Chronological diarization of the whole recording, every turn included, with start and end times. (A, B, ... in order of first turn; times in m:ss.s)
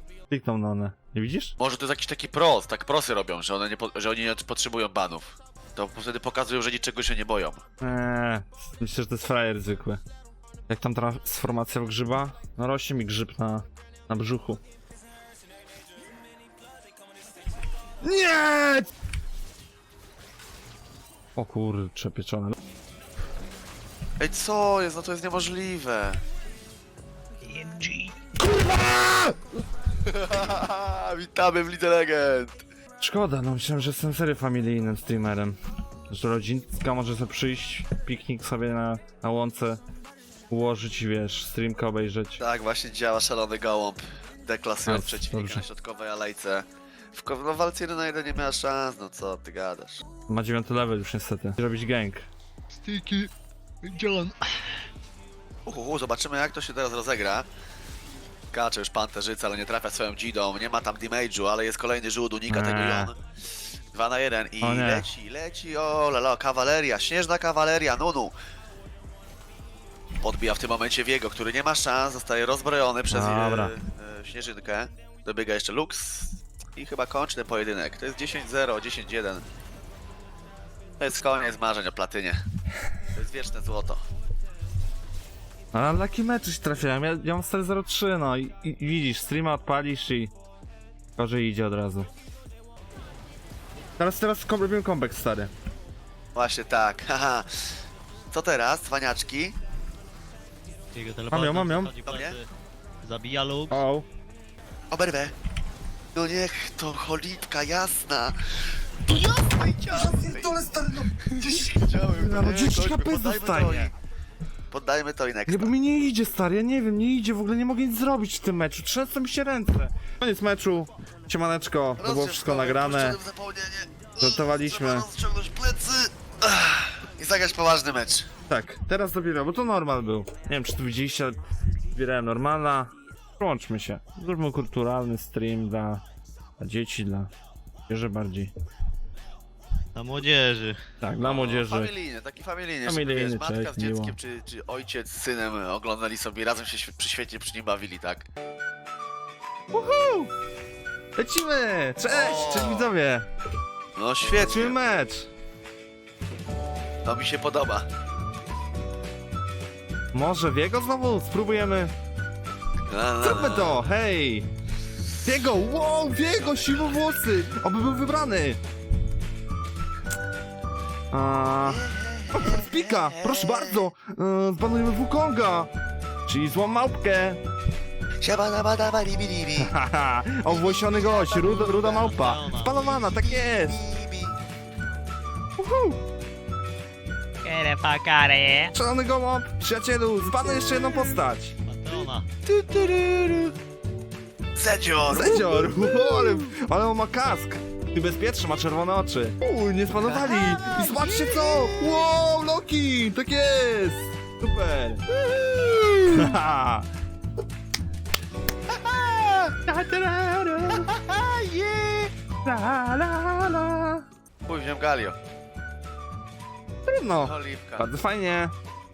0:00.3-0:01.5 A
0:01.6-0:07.6 B
0:07.8-0:10.0 A
0:10.7-0:14.6 A
0:18.0-0:18.9 A
0:21.4-0:22.5 A
0:24.2-0:26.2 B
0:27.4-0:28.1 C
0:28.4-0:29.4 B
0:30.0-0:32.6 B
0:33.0-0:35.6 A
0:36.1-0:39.8 A
0:40.5-0:42.4 A
0:42.4-0:50.0 B
0:44.8-0:45.7 A
0:50.3-0:52.2 A
0:52.8-0:53.3 C
0:53.8-0:54.7 C
0:55.6-0:57.5 B
0:58.5-1:03.2 B
1:02.5-1:03.1 A
1:03.9-1:08.3 B
1:04.6-1:05.1 A
1:10.2-1:19.4 B
1:13.1-1:13.7 A
1:21.0-1:22.4 B
1:23.1-1:24.0 B
1:25.7-1:30.3 A
1:31.2-1:32.1 A
1:34.0-1:35.5 A
1:36.3-1:37.8 B
1:38.3-1:39.6 B
1:40.9-1:42.5 C
1:41.3-1:41.9 A
1:42.0-1:42.4 B
1:43.0-1:43.8 C
1:43.7-1:44.1 A
1:44.9-1:45.3 B
1:46.1-1:48.4 B
1:49.0-1:50.6 B
1:50.0-1:51.1 A
1:51.3-1:53.9 B
1:52.2-1:53.9 A
1:54.7-1:55.7 B
1:55.5-2:03.2 A
2:02.0-2:08.3 B
2:04.2-2:05.0 A
2:08.5-2:11.4 A
2:11.9-2:16.0 A
2:16.6-2:17.3 A
2:17.9-2:18.5 A
2:19.9-2:20.8 C
2:21.0-2:21.9 A
2:21.2-2:28.2 B
2:22.8-2:24.2 A
2:29.7-2:30.3 A
2:31.2-2:33.2 A
2:32.1-2:32.9 B
2:34.0-2:34.8 B
2:34.4-2:35.3 A
2:37.0-2:37.9 B
2:40.1-2:41.9 A
2:42.9-2:43.9 B
2:43.2-2:44.5 A
2:45.2-2:48.6 A
2:46.5-2:47.0 B
2:51.1-2:55.7 A
2:51.6-2:53.9 B
2:56.3-2:57.4 A
2:58.2-2:59.7 B
2:59.6-3:03.8 A
3:00.4-3:04.4 B
3:01.7-3:02.8 C
3:05.6-3:06.0 A
3:07.4-3:08.7 C
3:08.7-3:11.5 A
3:11.6-3:12.3 C
3:11.9-3:13.5 B
3:14.6-3:16.5 B
3:15.1-3:25.0 A
3:20.0-3:22.1 B
3:25.1-3:26.3 B
3:26.1-3:26.8 A
3:28.7-3:29.5 B
3:29.6-3:30.9 A
3:30.7-3:32.1 B
3:32.4-3:34.0 A
3:34.4-3:35.2 B
3:36.9-3:38.5 A
3:37.2-3:37.9 B